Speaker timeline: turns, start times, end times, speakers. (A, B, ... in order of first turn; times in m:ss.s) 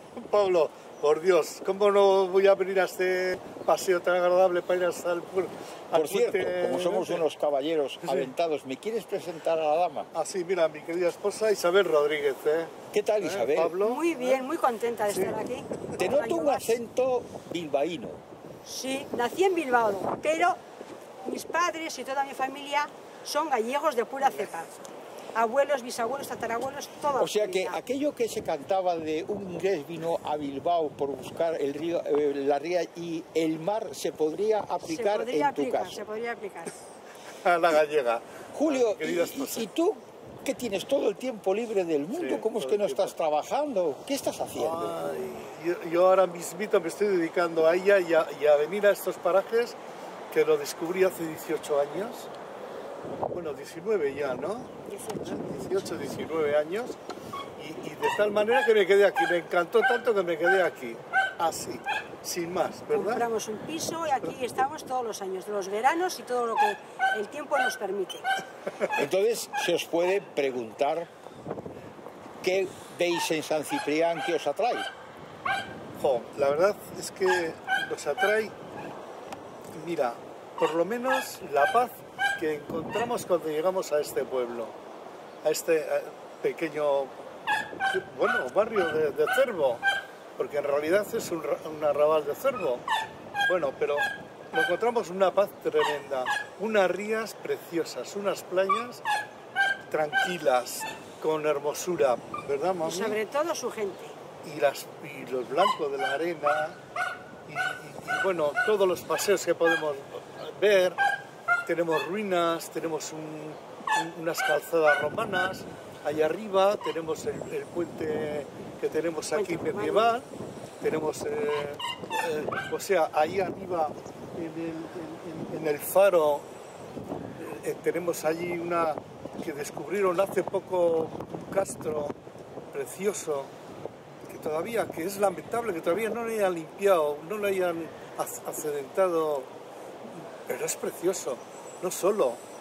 0:00.2-0:07.3 A
0:05.9-0:10.1 B
0:08.0-0:08.3 A
0:10.1-0:14.4 A
0:12.9-0:13.8 B
0:13.8-0:16.8 C
0:15.1-0:15.4 A
0:16.0-0:18.2 B
0:18.6-0:20.6 C
0:21.2-0:24.7 C
0:25.4-0:27.8 C
0:27.2-0:36.0 B
0:34.8-0:36.7 C
0:37.4-0:39.7 A
0:38.5-0:45.0 B
0:42.1-0:43.1 A
0:44.6-0:49.8 A
0:50.3-0:52.3 A
0:53.3-0:57.0 A
0:54.9-0:56.2 C
0:57.6-1:03.3 A
1:02.9-1:08.3 C
1:09.0-1:11.1 B
1:12.4-1:14.9 B
1:16.0-1:18.5 A
1:19.7-1:24.8 A
1:25.4-1:27.1 A
1:27.9-1:29.8 A
1:30.4-1:32.8 A
1:33.4-1:39.0 A
1:39.9-1:43.2 A
1:42.8-1:44.2 C
1:44.4-1:46.8 A
1:47.5-1:51.0 A
1:51.7-2:00.3 A
1:59.3-2:00.2 C
2:00.8-2:06.5 A
2:07.4-2:12.2 A
2:12.7-2:13.5 A
2:14.3-2:19.5 A
2:20.4-2:22.4 A